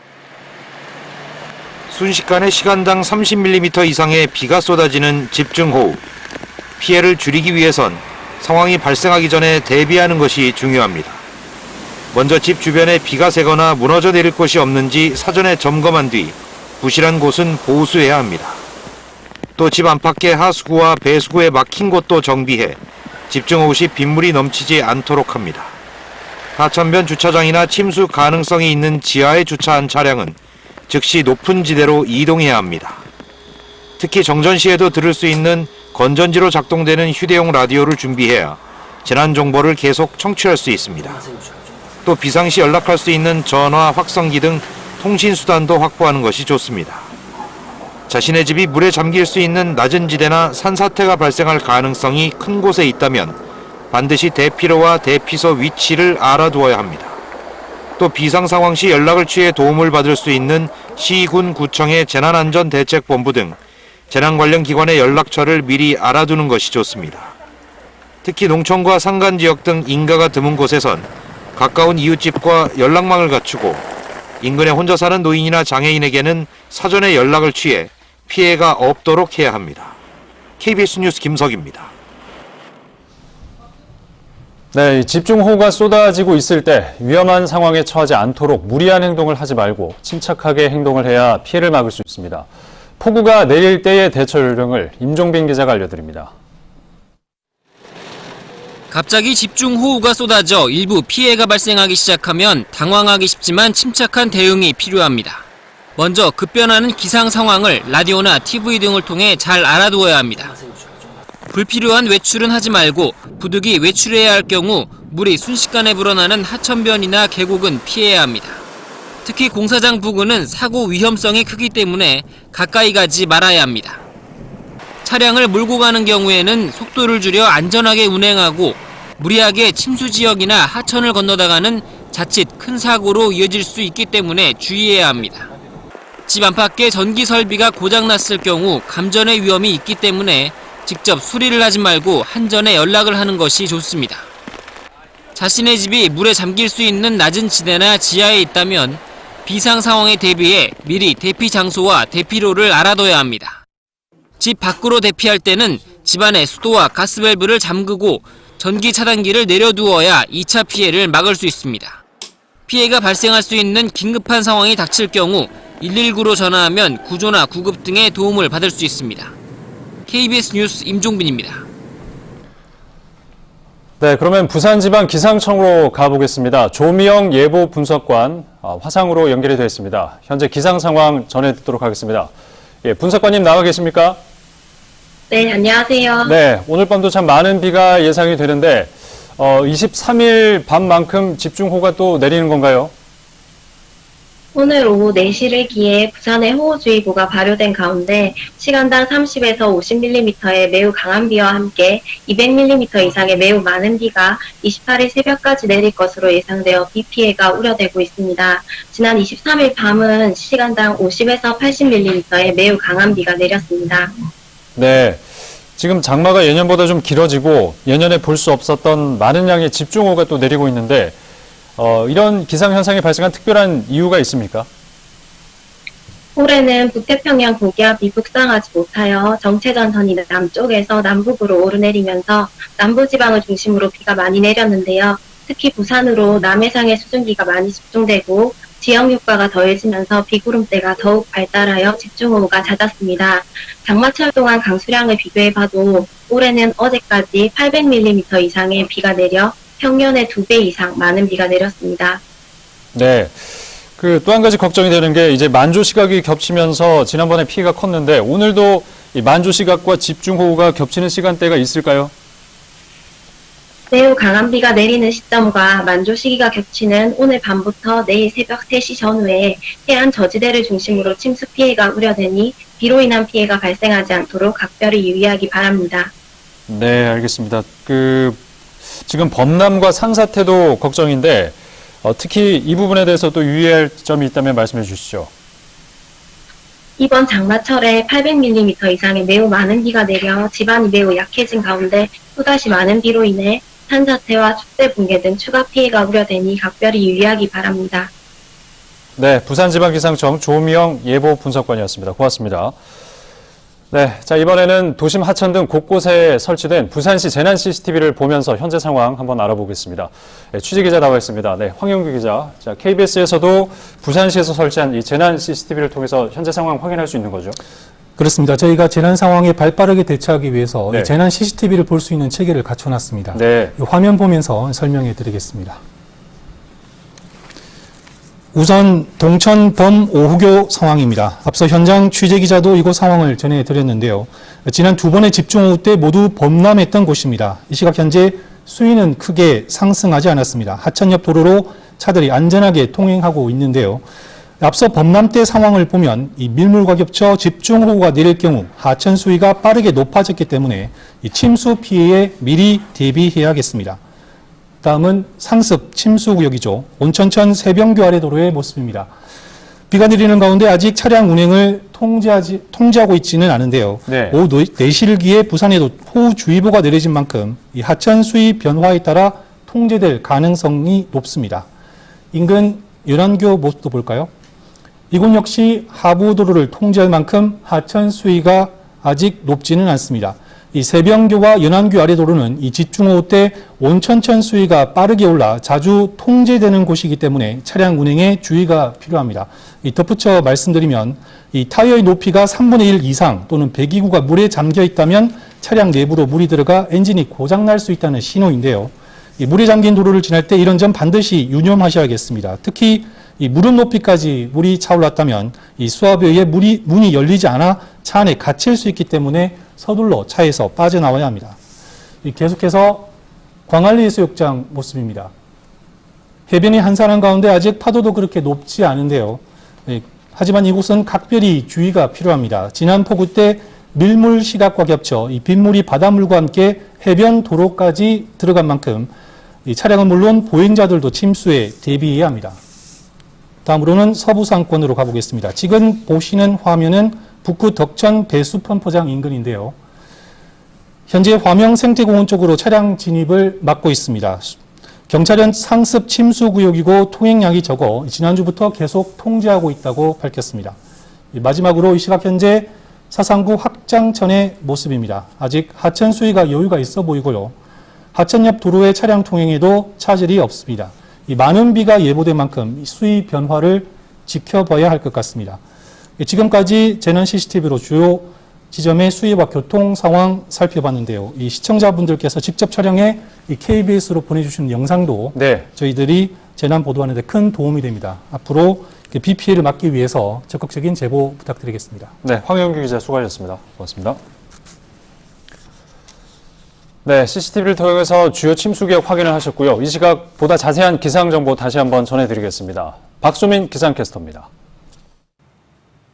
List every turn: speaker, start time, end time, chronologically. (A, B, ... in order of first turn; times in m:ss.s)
0:01.9-0:06.0 A
0:06.8-0:11.2 A
0:12.1-0:18.6 A
0:19.6-0:25.8 A
0:26.6-0:30.4 A
0:30.9-0:33.0 A
0:34.0-0:41.2 A
0:42.0-0:47.1 A
0:48.1-0:53.4 A
0:53.9-0:57.2 A
0:58.0-1:07.4 A
1:08.2-1:13.8 A
1:14.4-1:20.0 A
1:20.6-1:21.9 A
1:24.7-1:32.5 B
1:33.0-1:36.3 B
1:38.9-1:45.4 C
1:46.0-1:50.5 C
1:51.5-1:58.6 C
1:59.2-2:04.0 C
2:05.0-2:15.5 C
2:16.3-2:24.3 C
2:25.4-2:33.6 C
2:34.4-2:42.0 C
2:42.7-2:49.3 C
2:50.1-2:51.6 C
2:54.0-3:02.3 B
3:02.8-3:04.2 B
3:05.3-3:06.4 D
3:06.2-3:12.9 B
3:14.5-3:34.3 D
3:34.8-3:35.2 B
3:35.8-3:41.2 B
3:41.8-3:44.7 B
3:46.4-4:12.2 D
4:12.9-4:22.1 B
4:23.9-4:36.1 D
4:36.7-4:38.4 B
4:39.0-4:45.3 B
4:47.0-4:58.1 D
4:59.2-5:02.8 B
5:03.9-5:17.6 B
5:18.2-5:25.8 E
5:20.9-5:21.1 B
5:23.3-5:23.8 B
5:28.5-5:44.0 E
5:44.6-5:54.0 E
5:54.8-5:59.1 E
5:59.9-6:11.7 E
6:04.1-6:04.4 B
6:12.3-6:14.3 E
6:15.1-6:51.6 E
6:52.2-6:53.1 E
6:53.7-6:55.3 E
6:56.5-7:09.1 E
7:09.7-7:12.6 E
7:13.6-7:19.8 E
7:21.1-7:24.6 E
7:25.1-7:30.8 E
7:31.3-7:37.5 E
7:38.2-7:45.6 E
7:46.2-8:02.1 E
7:55.3-7:55.7 B
8:02.2-8:04.2 B
8:07.0-8:14.5 B